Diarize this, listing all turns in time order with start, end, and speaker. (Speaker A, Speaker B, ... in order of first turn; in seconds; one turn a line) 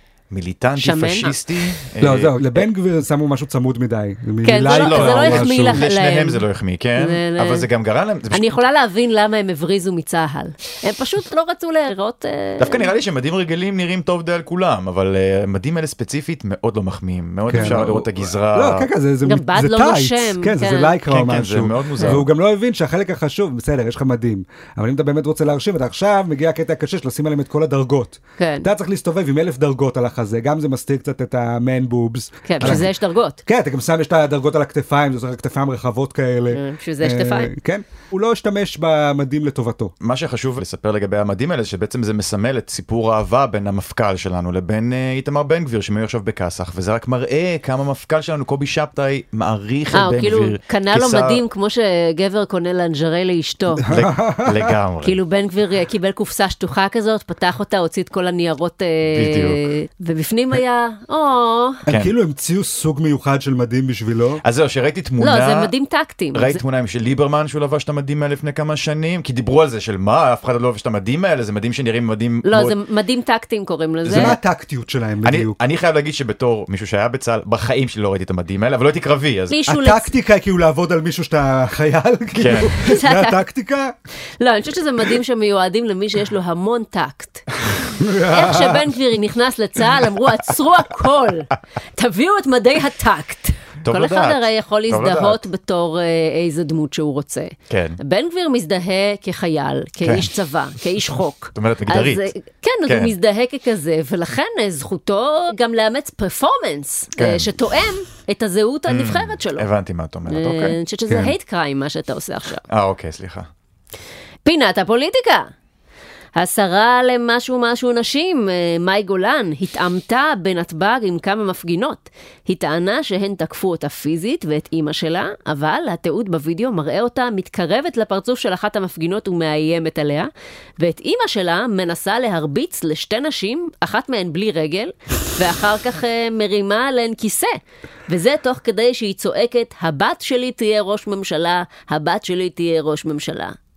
Speaker A: 0.3-2.6
Speaker B: 0.8-1.3
Speaker C: 2.0-5.8
Speaker B: 4.4-6.4
Speaker A: 4.7-8.5
Speaker B: 7.0-7.7
Speaker B: 8.3-12.9
Speaker A: 12.6-18.9
Speaker C: 17.5-32.9
Speaker B: 19.2-21.0
Speaker A: 21.1-22.3
Speaker B: 28.4-28.7
Speaker B: 32.5-33.4
Speaker A: 32.6-32.9
Speaker C: 33.4-39.9
Speaker B: 36.5-37.5
Speaker A: 40.0-51.4
Speaker B: 49.9-53.9
Speaker C: 53.8-54.7
Speaker A: 53.9-55.2
Speaker B: 55.0-61.8
Speaker A: 59.1-59.6
Speaker C: 61.9-64.4
Speaker A: 61.9-62.1
Speaker A: 64.4-65.7
Speaker B: 65.2-66.6
Speaker A: 66.3-72.8
Speaker B: 72.4-74.4
Speaker A: 74.0-74.4
Speaker C: 74.1-75.6
Speaker A: 75.2-79.6
Speaker B: 79.5-80.1
Speaker C: 79.7-83.9
Speaker A: 82.3-82.8
Speaker B: 82.8-83.4
Speaker B: 84.4-87.5
Speaker C: 87.9-88.8
Speaker B: 88.3-109.7
Speaker A: 93.8-95.4
Speaker A: 97.7-98.0
Speaker A: 100.0-100.3
Speaker A: 101.5-102.3
Speaker A: 102.8-103.1
Speaker A: 107.2-107.5
Speaker A: 108.9-110.8
Speaker B: 110.3-112.6
Speaker C: 111.1-111.3
Speaker A: 112.7-113.5
Speaker B: 114.4-115.5
Speaker B: 116.3-143.6